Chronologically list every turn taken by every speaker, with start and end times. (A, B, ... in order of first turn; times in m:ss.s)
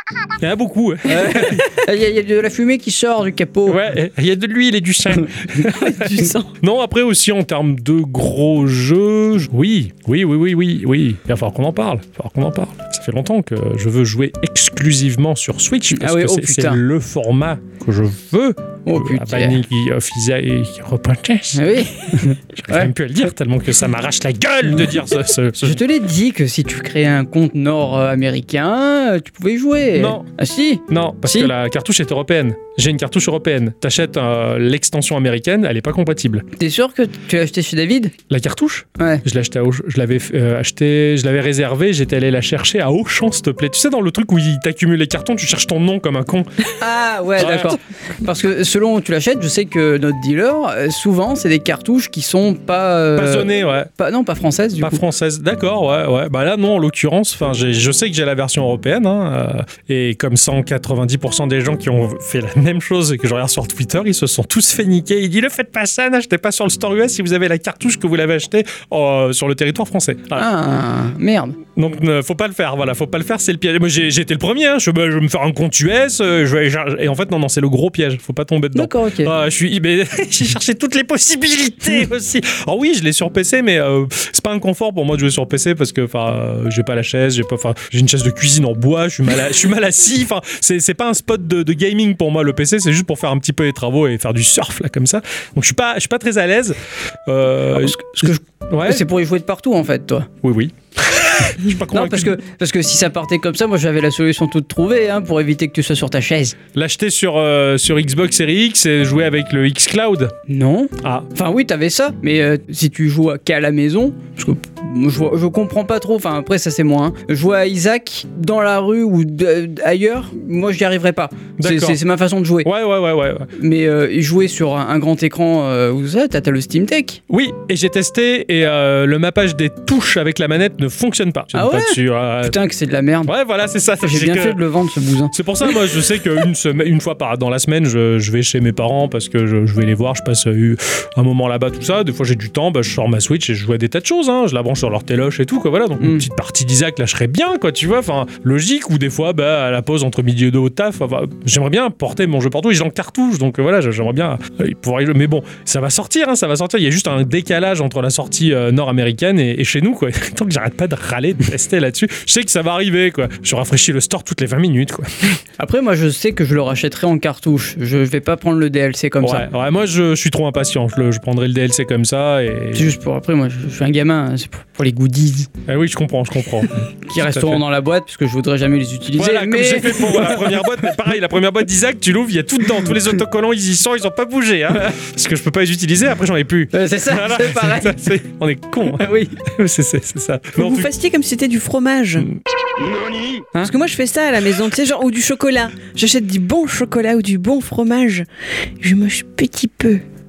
0:00.4-0:01.7 A
0:01.1-0:03.8 B
0:03.7-0:25.8 A
0:05.7-0:06.5 C
0:15.9-0:16.8 B
0:18.9-0:19.6 B
0:21.6-0:22.9 B
0:25.6-0:31.5 B
0:30.0-0:30.2 A
0:30.9-0:36.4 A
0:36.6-0:38.1 B
0:38.3-0:46.5 A
0:39.0-0:39.2 B
0:46.8-0:55.0 B
0:47.4-0:47.8 A
0:53.2-0:53.9 A
0:54.8-1:10.5 A
1:10.4-1:11.6 B
1:11.8-1:39.1 A
1:18.8-1:19.3 B
1:37.7-1:40.3 B
1:40.4-1:42.4 A
1:41.9-1:46.6 B
1:46.8-1:50.3 A
1:50.5-2:02.7 B
1:51.0-1:51.3 A
2:01.6-2:02.0 A
2:02.6-2:03.5 A
2:03.6-2:07.2 B
2:07.3-2:12.6 A
2:11.5-2:13.3 B
2:13.3-2:14.6 A
2:14.0-2:15.4 B
2:15.3-2:45.4 A
2:26.0-2:26.3 B
2:45.6-2:49.5 B
2:49.2-2:52.9 A
2:52.8-2:55.5 B
2:55.7-2:57.6 A
2:57.1-3:00.7 B
2:59.2-3:10.9 A
3:06.7-3:08.2 B
3:08.9-3:09.4 B
3:10.6-3:12.3 C
3:13.6-3:18.3 C
3:18.8-3:20.0 C